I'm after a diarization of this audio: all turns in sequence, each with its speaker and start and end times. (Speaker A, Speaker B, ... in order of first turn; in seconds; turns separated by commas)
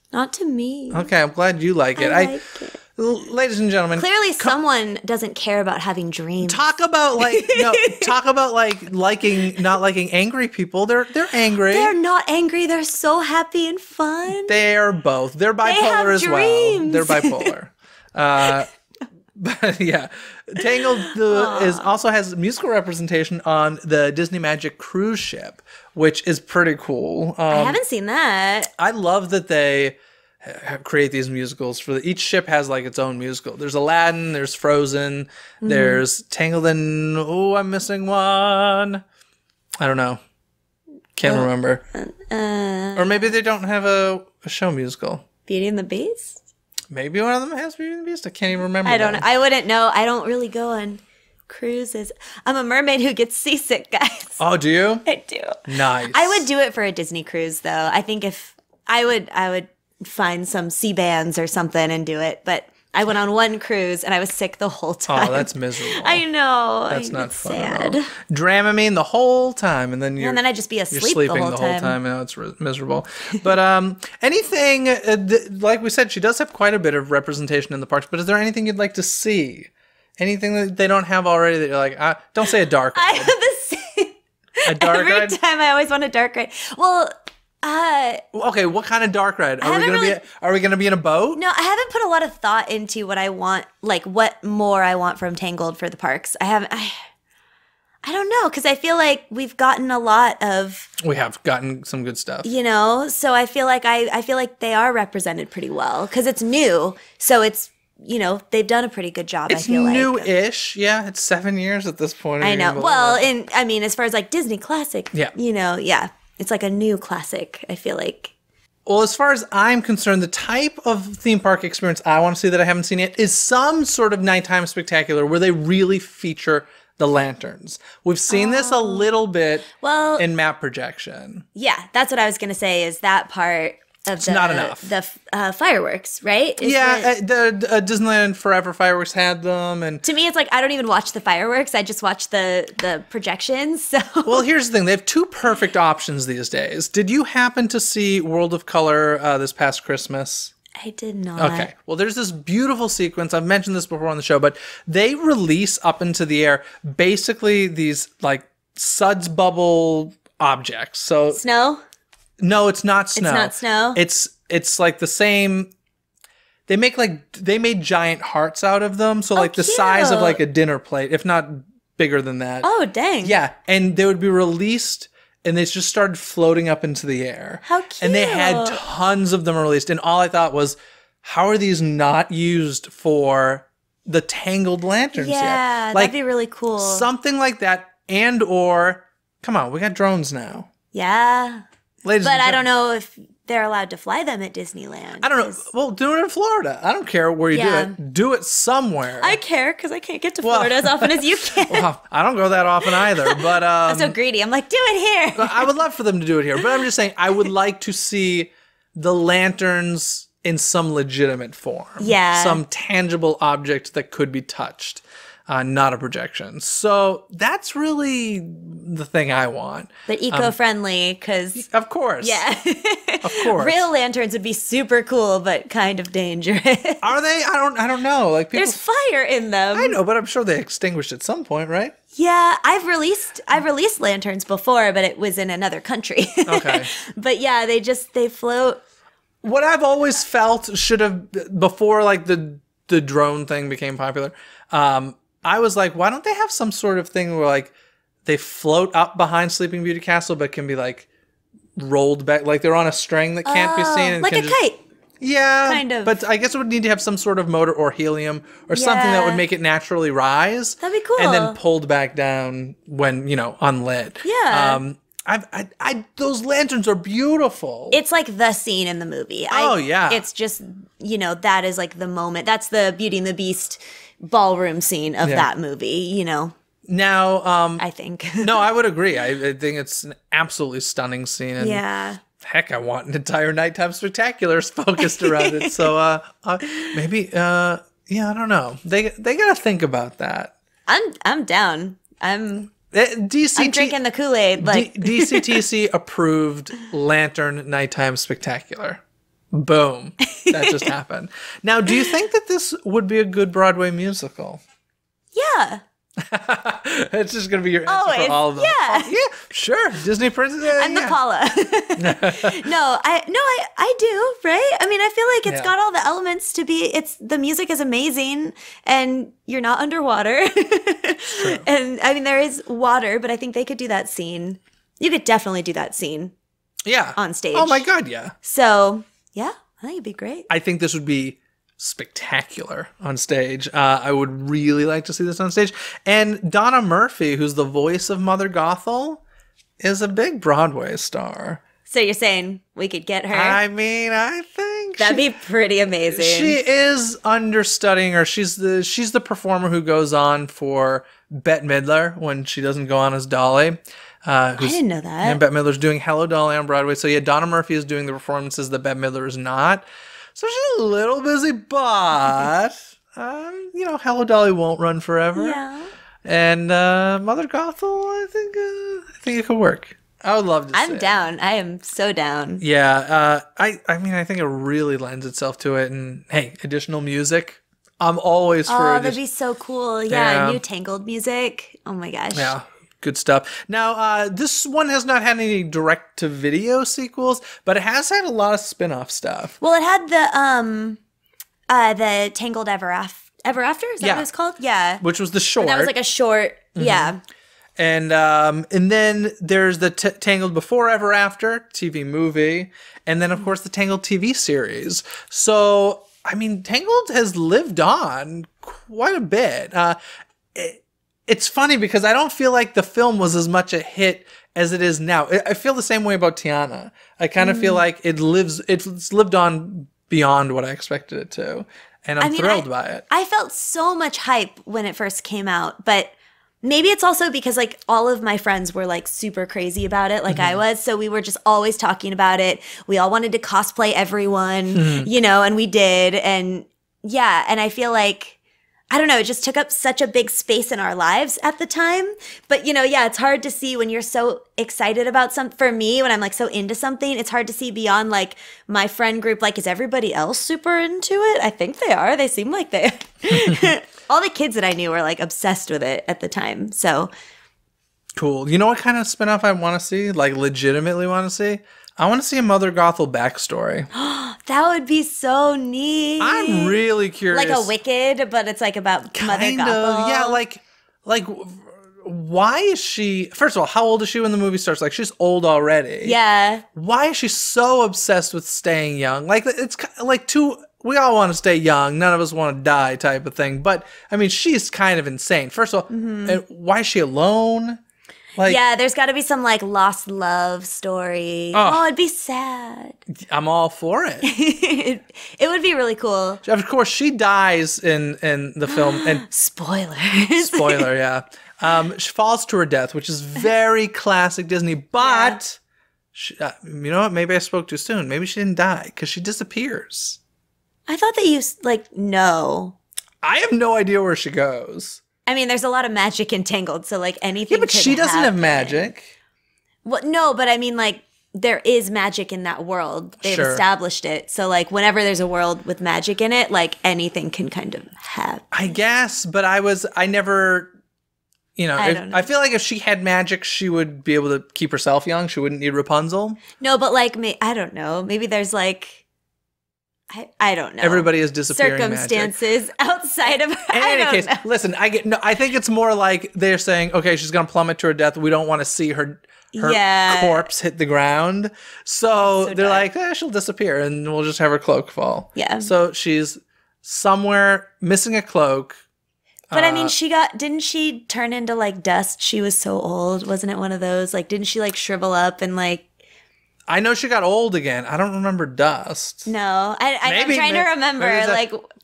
Speaker A: 0.1-1.1, Speaker B: 0.9-2.4, Speaker A: 2.0-2.8, Speaker B: 3.0-4.5, Speaker A: 4.0-6.6, Speaker B: 6.4-11.9, Speaker A: 7.2-8.1, Speaker A: 11.7-14.6, Speaker B: 14.3-18.7, Speaker A: 15.6-17.5, Speaker B: 19.4-27.8, Speaker A: 21.2-21.9, Speaker A: 27.5-28.7, Speaker B: 28.8-39.0, Speaker A: 35.6-36.0, Speaker B: 39.8-40.2, Speaker B: 41.2-41.8, Speaker A: 41.2-43.3, Speaker B: 43.0-45.3, Speaker A: 45.5-46.4, Speaker B: 46.9-49.3, Speaker A: 48.8-54.4, Speaker B: 54.4-55.1, Speaker A: 55.1-68.1, Speaker B: 55.6-56.5, Speaker B: 65.1-66.2, Speaker B: 66.9-70.4, Speaker A: 70.2-72.0, Speaker B: 70.9-83.3, Speaker A: 82.9-88.2, Speaker B: 84.6-85.4, Speaker B: 88.3-91.4, Speaker A: 89.6-90.2, Speaker A: 91.3-97.1, Speaker A: 98.0-100.9, Speaker B: 101.0-102.5, Speaker A: 102.4-110.3, Speaker B: 109.5-113.3, Speaker A: 112.4-118.3, Speaker B: 118.9-131.4, Speaker A: 128.3-129.1, Speaker A: 129.7-130.3, Speaker A: 131.6-137.1, Speaker B: 134.2-134.9, Speaker B: 136.6-140.1, Speaker A: 140.0-144.4, Speaker B: 144.2-150.5, Speaker A: 150.8-151.7, Speaker B: 151.4-161.4, Speaker A: 161.3-161.8, Speaker B: 162.4-165.7, Speaker A: 163.2-164.0, Speaker B: 166.7-172.7, Speaker A: 169.4-170.4, Speaker A: 172.6-173.4, Speaker B: 173.2-186.1, Speaker A: 177.6-178.8, Speaker A: 185.1-187.1, Speaker B: 186.8-190.7, Speaker A: 190.9-191.7, Speaker B: 192.1-192.7, Speaker A: 192.2-195.6, Speaker B: 195.2-199.4, Speaker A: 197.5-198.0, Speaker A: 199.2-201.9, Speaker B: 200.4-204.2, Speaker A: 202.8-205.7, Speaker B: 205.4-220.5, Speaker A: 212.0-212.6, Speaker A: 220.1-221.7, Speaker B: 221.6-222.4, Speaker A: 222.2-227.0, Speaker B: 223.2-223.8, Speaker B: 227.0-228.8, Speaker A: 228.5-230.0, Speaker B: 229.7-231.9, Speaker A: 232.1-238.8, Speaker B: 236.4-236.9, Speaker B: 239.4-247.7, Speaker B: 248.2-251.1, Speaker B: 251.8-254.6, Speaker A: 253.4-254.8, Speaker B: 255.2-268.0, Speaker A: 255.7-256.1, Speaker A: 258.7-259.4, Speaker A: 260.8-261.6, Speaker A: 264.2-264.8, Speaker A: 267.9-276.6, Speaker B: 269.5-270.2, Speaker B: 275.2-275.5, Speaker B: 276.9-277.8, Speaker A: 277.8-278.6, Speaker B: 278.4-281.8, Speaker A: 281.6-282.2, Speaker B: 282.4-290.5, Speaker A: 285.0-285.9, Speaker A: 290.9-292.7, Speaker B: 292.9-294.0, Speaker A: 293.6-295.6, Speaker B: 294.6-299.0, Speaker B: 299.5-304.6, Speaker A: 300.4-300.9, Speaker A: 305.3-305.8, Speaker B: 306.2-311.2, Speaker A: 307.9-309.2, Speaker A: 310.8-326.3, Speaker B: 312.0-312.6, Speaker B: 315.5-315.7, Speaker B: 321.4-321.6, Speaker B: 326.9-328.3, Speaker A: 327.2-327.9, Speaker A: 328.4-330.5, Speaker B: 330.5-339.2, Speaker B: 339.8-341.6, Speaker A: 341.9-343.6, Speaker B: 343.3-345.2, Speaker A: 345.0-346.6, Speaker B: 346.1-359.9, Speaker A: 354.6-355.4, Speaker B: 360.4-365.6, Speaker A: 365.4-365.9, Speaker B: 366.2-371.1, Speaker A: 370.7-372.6, Speaker B: 372.6-379.2, Speaker A: 378.7-382.5, Speaker B: 380.1-380.6, Speaker B: 382.3-389.6, Speaker A: 389.6-391.0, Speaker A: 391.7-395.0, Speaker B: 394.0-394.3, Speaker B: 395.0-395.9, Speaker A: 395.6-397.2, Speaker B: 396.8-397.1, Speaker B: 397.8-410.0, Speaker B: 410.5-423.0, Speaker A: 417.4-417.8, Speaker A: 422.2-438.4, Speaker B: 430.3-430.6, Speaker B: 434.7-435.1, Speaker A: 438.9-457.1, Speaker B: 458.2-463.9, Speaker A: 463.9-466.8, Speaker B: 466.2-467.7, Speaker A: 467.3-470.4, Speaker B: 469.1-476.2, Speaker A: 476.0-476.6, Speaker B: 476.8-487.8, Speaker A: 485.9-486.4, Speaker A: 488.4-493.0, Speaker B: 491.5-491.9, Speaker B: 493.1-494.3, Speaker A: 494.2-496.4, Speaker B: 496.4-499.3, Speaker A: 498.7-500.9, Speaker B: 500.4-505.6, Speaker A: 505.0-505.4, Speaker B: 506.1-510.2, Speaker A: 510.9-512.8, Speaker B: 513.2-515.0, Speaker A: 515.3-518.9, Speaker B: 517.5-519.1, Speaker A: 519.9-528.6, Speaker B: 523.2-523.6, Speaker B: 528.5-530.7, Speaker B: 531.6-536.4, Speaker A: 531.8-532.3, Speaker A: 536.6-539.0, Speaker A: 540.1-544.4, Speaker B: 540.8-542.4, Speaker B: 543.7-558.8, Speaker A: 549.5-550.5, Speaker A: 552.4-552.9, Speaker A: 555.4-555.7, Speaker B: 559.5-560.0, Speaker A: 559.5-565.9, Speaker B: 566.7-569.3, Speaker A: 569.3-571.6, Speaker B: 570.0-571.5